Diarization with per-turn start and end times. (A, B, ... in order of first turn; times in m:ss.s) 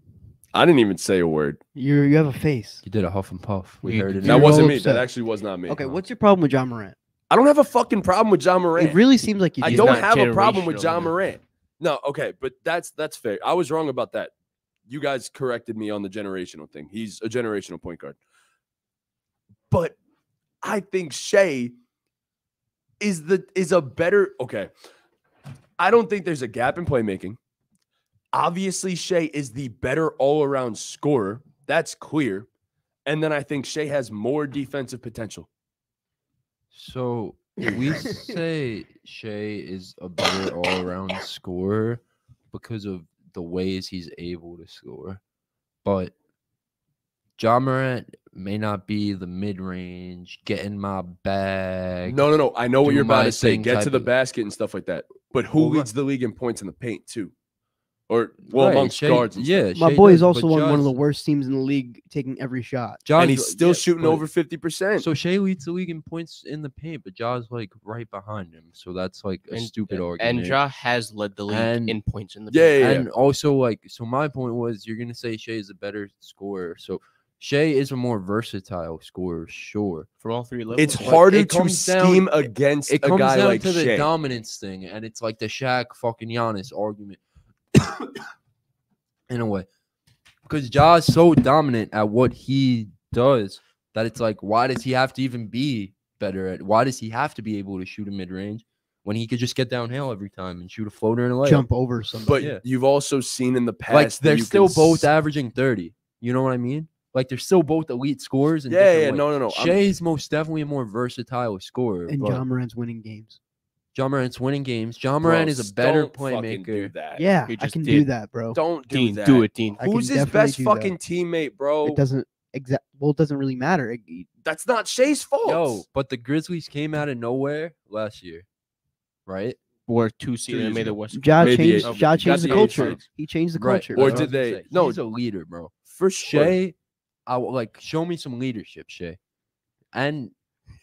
0:00.5-0:01.6 A
0:01.8-0:02.8 B
0:02.8-0:04.8 C
0:03.8-0:04.3 D
0:04.2-0:05.1 B
0:04.2-0:05.8 A
0:05.7-0:07.0 B
0:07.3-0:09.0 A
0:08.8-0:10.0 B
0:09.6-0:14.3 A
0:09.6-0:11.1 D
0:14.9-0:18.2 A
0:19.7-0:20.0 A
0:20.6-0:21.8 A
0:23.0-0:24.7 A
0:25.8-0:27.4 A
0:28.3-0:32.5 A
0:33.1-0:35.5 A
0:36.7-0:45.2 C
0:38.0-0:38.4 B
0:45.8-0:46.1 C
0:47.4-0:52.2 C
0:52.1-0:57.3 A
0:52.8-0:54.1 C
0:55.6-0:55.9 C
0:58.1-0:59.7 A
0:58.5-1:00.9 C
0:59.8-1:03.0 B
1:03.0-1:04.2 C
1:03.2-1:05.1 A
1:05.0-1:10.6 C
1:09.5-1:12.9 D
1:11.5-1:12.0 C
1:12.5-1:13.1 A
1:12.8-1:20.1 C
1:20.2-1:21.2 D
1:20.8-1:24.1 A
1:20.9-1:27.2 C
1:27.7-1:28.1 C
1:29.3-1:29.7 C
1:30.5-1:41.7 C
1:41.4-1:42.5 B
1:42.3-1:45.1 A
1:42.3-1:42.6 C
1:43.9-1:52.4 C
1:48.7-1:49.8 A
1:52.1-1:53.4 B
1:53.9-1:57.0 C
1:55.2-1:57.3 A
1:57.2-1:58.6 B
1:57.5-1:58.1 D
1:58.5-2:02.0 A
1:58.9-1:59.8 D
1:59.8-2:01.0 B
2:01.8-2:04.3 B
2:04.4-2:05.8 A
2:05.4-2:08.5 C
2:09.3-2:09.6 C
2:09.9-2:13.0 D
2:10.5-2:13.0 A
2:11.1-2:14.3 B
2:13.6-2:16.8 C
2:14.0-2:15.0 A
2:15.9-2:16.6 A
2:17.3-2:19.2 C
2:19.9-2:20.3 C